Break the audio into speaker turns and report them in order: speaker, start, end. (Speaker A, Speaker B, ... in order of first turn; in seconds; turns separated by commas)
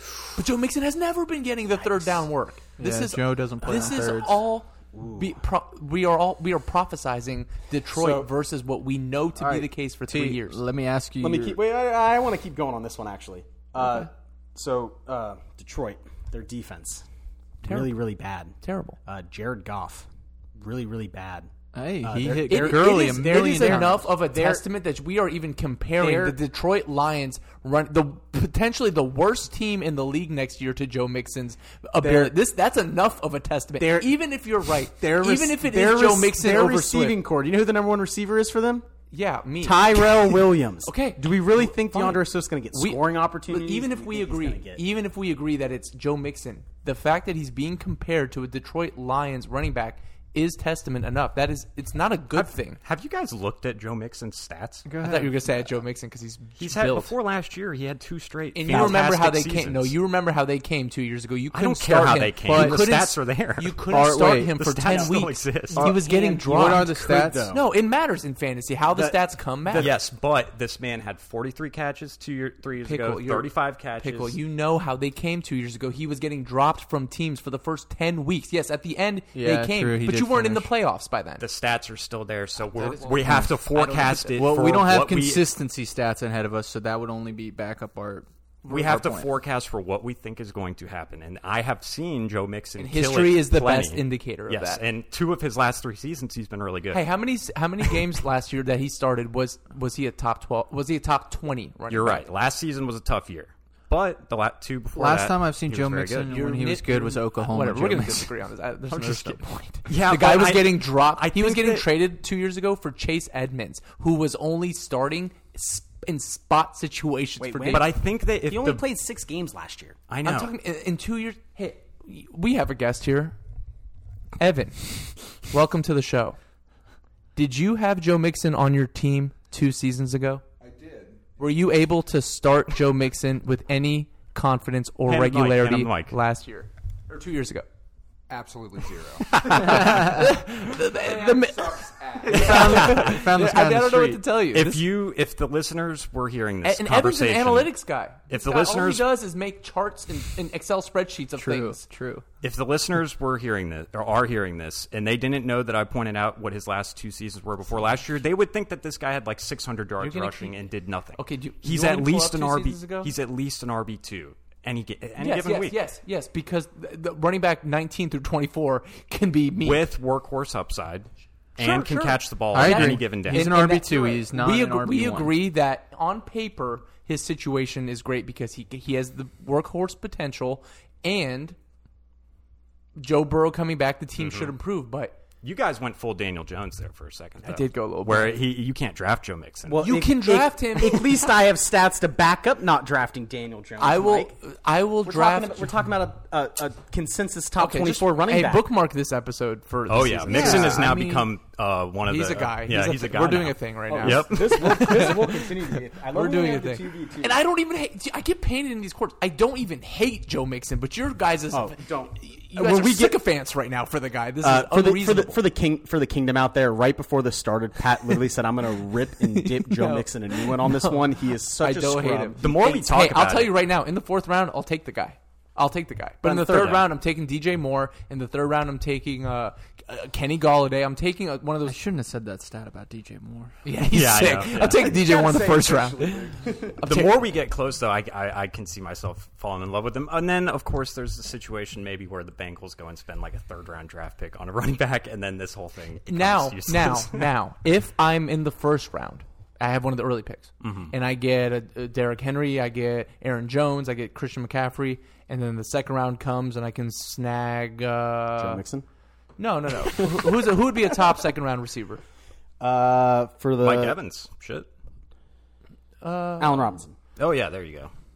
Speaker A: 0.3-10.6, Speaker B: 1.8-2.3, Speaker C: 2.8-4.4, Speaker B: 4.9-5.4, Speaker B: 7.9-8.3, Speaker C: 9.4-11.6, Speaker B: 11.2-17.1, Speaker A: 17.6-18.0, Speaker B: 17.6-24.6, Speaker A: 18.6-19.0, Speaker C: 21.7-24.1, Speaker A: 22.5-37.2, Speaker B: 26.0-26.4, Speaker B: 32.0-32.3, Speaker B: 33.8-34.1, Speaker B: 35.0-38.9, Speaker A: 39.1-52.8, Speaker B: 39.6-44.8, Speaker D: 52.3-54.9, Speaker C: 54.8-55.5, Speaker A: 55.0-57.1, Speaker D: 56.6-59.9, Speaker A: 58.5-67.0, Speaker D: 61.5-64.0, Speaker C: 62.5-62.9, Speaker C: 63.9-64.6, Speaker D: 64.5-65.8, Speaker B: 64.9-65.2, Speaker C: 65.7-67.5, Speaker B: 65.7-67.6, Speaker A: 67.5-69.9, Speaker B: 68.9-69.9, Speaker D: 69.7-74.4, Speaker A: 72.8-81.4, Speaker C: 79.3-80.7, Speaker D: 81.4-85.5, Speaker A: 82.7-84.4, Speaker C: 84.3-89.3, Speaker D: 88.7-97.1, Speaker A: 92.8-94.8, Speaker A: 96.9-102.3, Speaker D: 101.9-106.3, Speaker C: 104.9-108.3, Speaker A: 106.3-117.9, Speaker C: 108.9-109.4, Speaker D: 109.9-111.9, Speaker B: 117.4-120.0, Speaker D: 117.7-118.8, Speaker D: 120.1-120.5, Speaker A: 120.2-123.4, Speaker A: 124.4-126.4, Speaker A: 127.3-130.4, Speaker E: 130.6-131.2, Speaker A: 131.4-137.7, Speaker D: 135.1-136.2, Speaker E: 138.3-139.2, Speaker D: 139.3-139.8, Speaker A: 139.3-144.8, Speaker E: 140.9-142.4, Speaker C: 142.2-144.2, Speaker D: 142.4-143.2, Speaker D: 144.5-147.7, Speaker A: 146.6-151.8, Speaker D: 148.3-149.1, Speaker C: 151.3-152.2, Speaker D: 152.4-165.8, Speaker A: 160.0-160.5, Speaker A: 161.2-163.1, Speaker A: 165.2-169.9, Speaker D: 169.6-173.6, Speaker A: 171.6-181.6, Speaker C: 172.5-175.4, Speaker A: 183.0-185.2, Speaker D: 184.2-184.5, Speaker D: 185.4-189.8, Speaker A: 187.4-188.4, Speaker B: 189.7-194.3, Speaker A: 189.8-191.2, Speaker A: 193.8-195.8, Speaker B: 195.0-198.7, Speaker A: 197.6-201.3, Speaker D: 199.9-205.2, Speaker C: 200.3-200.8, Speaker A: 202.1-215.4, Speaker B: 203.9-207.4, Speaker B: 211.5-213.2, Speaker B: 214.4-222.4, Speaker A: 219.3-231.8, Speaker D: 222.4-223.6, Speaker B: 226.2-226.8, Speaker D: 226.5-226.8, Speaker C: 231.6-233.6, Speaker A: 233.6-237.2, Speaker D: 233.9-234.9, Speaker B: 234.7-236.8, Speaker D: 236.8-247.3, Speaker A: 246.1-258.6, Speaker D: 250.6-250.9, Speaker B: 258.4-258.9, Speaker A: 259.4-262.0, Speaker B: 259.8-260.7, Speaker B: 262.6-263.9, Speaker D: 263.6-264.7, Speaker A: 266.0-266.7, Speaker B: 266.4-267.0, Speaker D: 267.2-267.9